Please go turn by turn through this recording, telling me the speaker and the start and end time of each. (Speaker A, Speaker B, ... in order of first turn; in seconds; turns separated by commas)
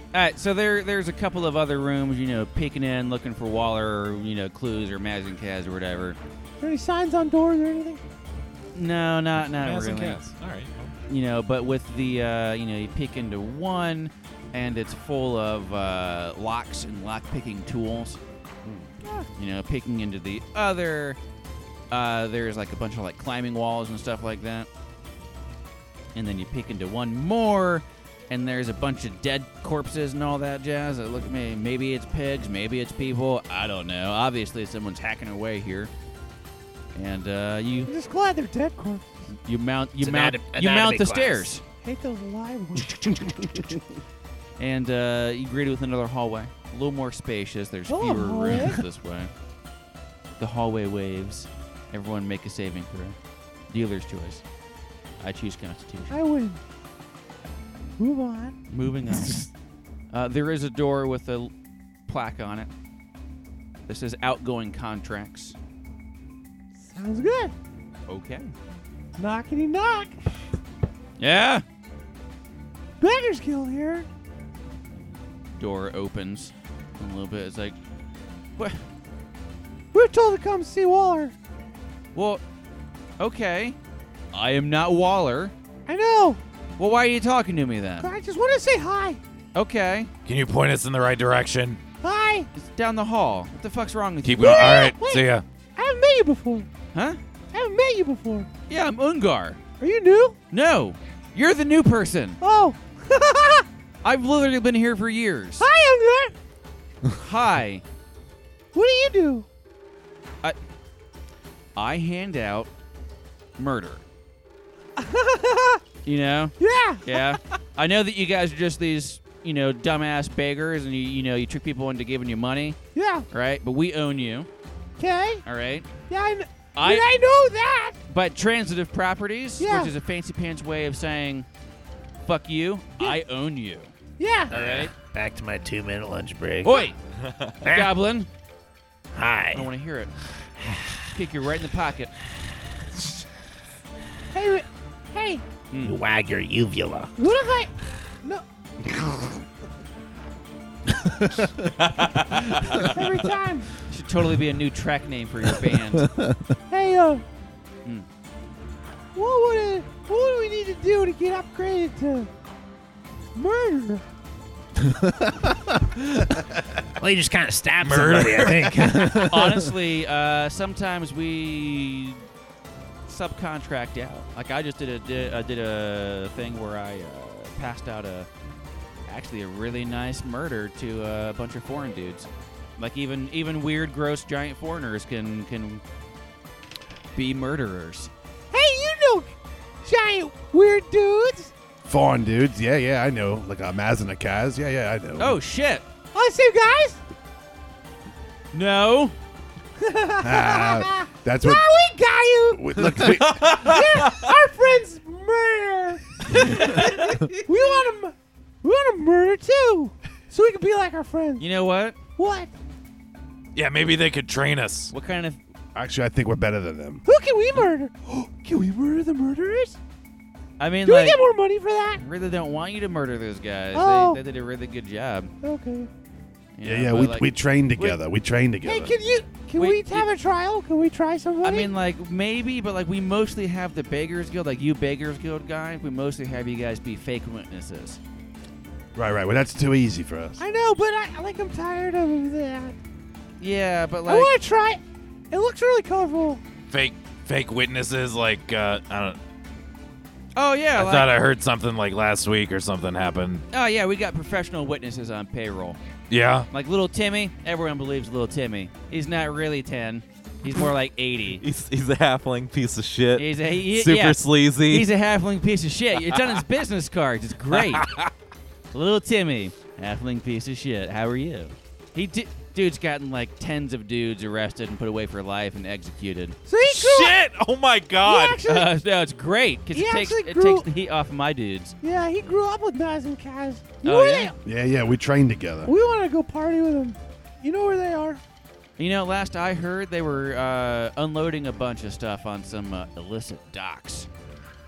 Speaker A: 0.1-6.2, Speaker B: 6.6-8.0, Speaker A: 8.7-10.2, Speaker C: 9.5-10.9, Speaker A: 11.1-18.2, Speaker D: 18.6-18.9, Speaker B: 19.0-19.3, Speaker A: 19.4-21.2, Speaker A: 21.9-24.7, Speaker A: 26.1-35.9, Speaker A: 36.9-37.9, Speaker B: 37.9-39.0, Speaker A: 39.5-41.6, Speaker E: 40.0-41.5, Speaker B: 41.8-43.3, Speaker A: 44.6-49.3, Speaker B: 47.9-48.8, Speaker A: 50.4-53.2, Speaker A: 53.7-54.4, Speaker A: 55.2-56.1, Speaker B: 56.1-56.6, Speaker B: 58.0-58.6, Speaker A: 58.7-59.5, Speaker A: 60.1-61.5, Speaker A: 62.1-62.7, Speaker A: 63.9-65.5, Speaker B: 66.8-67.5, Speaker A: 68.1-68.5, Speaker B: 69.2-70.2, Speaker A: 71.2-71.6, Speaker B: 73.0-74.1, Speaker A: 75.5-77.8, Speaker B: 79.9-81.3, Speaker A: 82.1-82.4, Speaker A: 83.2-83.8, Speaker A: 84.3-85.5, Speaker B: 85.9-86.4, Speaker A: 86.8-88.1, Speaker B: 88.0-89.2, Speaker A: 89.5-90.1, Speaker F: 90.2-91.8, Speaker B: 92.0-92.5, Speaker A: 92.5-94.9, Speaker F: 94.2-95.4, Speaker B: 94.3-96.7, Speaker A: 96.9-97.2, Speaker B: 97.5-98.5, Speaker A: 98.7-99.6, Speaker B: 99.8-100.4, Speaker A: 100.5-102.4, Speaker B: 102.4-103.7, Speaker A: 104.0-105.6, Speaker B: 105.6-106.3, Speaker A: 107.1-107.8, Speaker B: 108.7-109.5, Speaker A: 111.8-112.7, Speaker A: 113.6-114.0, Speaker B: 115.0-115.8, Speaker A: 116.0-122.8, Speaker B: 116.6-117.3, Speaker B: 122.9-123.2, Speaker A: 123.3-124.5, Speaker B: 125.0-125.4, Speaker A: 125.4-125.9, Speaker B: 126.1-128.0, Speaker A: 126.7-127.1, Speaker A: 128.1-131.5, Speaker B: 129.6-129.9, Speaker A: 132.2-133.9, Speaker B: 134.2-134.5, Speaker A: 134.5-134.9, Speaker E: 134.5-136.8, Speaker A: 136.6-136.9, Speaker E: 137.6-137.9, Speaker A: 137.6-138.3, Speaker E: 139.1-139.7, Speaker A: 139.5-140.1, Speaker A: 141.1-142.1, Speaker B: 144.3-145.4, Speaker A: 145.7-146.0, Speaker E: 145.8-147.1, Speaker B: 147.2-148.4, Speaker B: 152.8-153.7, Speaker A: 153.9-156.1, Speaker B: 156.7-157.2, Speaker B: 159.1-162.3, Speaker B: 163.3-164.0, Speaker E: 167.0-169.2, Speaker F: 167.8-168.9, Speaker A: 169.2-172.2, Speaker A: 173.1-178.3, Speaker A: 179.1-185.8, Speaker A: 187.1-188.1, Speaker B: 188.5-189.3, Speaker B: 189.8-191.5, Speaker D: 191.8-195.4, Speaker A: 195.2-195.8, Speaker B: 196.1-197.0, Speaker A: 198.5-199.1, Speaker B: 199.8-211.5, Speaker D: 200.2-201.6, Speaker D: 202.5-203.7, Speaker C: 203.2-204.3, Speaker A: 211.4-212.0, Speaker B: 212.2-212.5, Speaker F: 213.5-214.9, Speaker A: 214.9-215.4, Speaker D: 215.7-217.0, Speaker B: 217.0-219.8, Speaker A: 220.6-221.2, Speaker B: 220.8-222.0, Speaker A: 222.0-225.3, Speaker B: 223.7-224.2, Speaker B: 225.4-225.9, Speaker A: 226.6-228.0, Speaker D: 226.6-228.9, Speaker B: 228.6-231.7, Speaker A: 229.6-230.1, Speaker A: 231.4-238.0, Speaker D: 238.9-240.4, Speaker B: 240.4-242.8, Speaker A: 243.4-244.3, Speaker B: 244.1-246.4, Speaker F: 246.7-249.2, Speaker A: 250.3-251.1, Speaker F: 250.8-253.4, Speaker A: 253.5-255.8, Speaker F: 256.1-256.5, Speaker A: 256.5-261.4, Speaker C: 261.4-264.9, Speaker A: 263.1-267.9, Speaker A: 268.7-276.4, Speaker B: 276.5-277.2, Speaker C: 276.6-278.4, Speaker B: 278.0-278.7, Speaker A: 278.4-281.8, Speaker B: 279.7-280.7, Speaker B: 281.8-284.3, Speaker A: 283.8-284.3, Speaker D: 284.4-285.7, Speaker B: 285.6-288.2, Speaker A: 288.8-294.1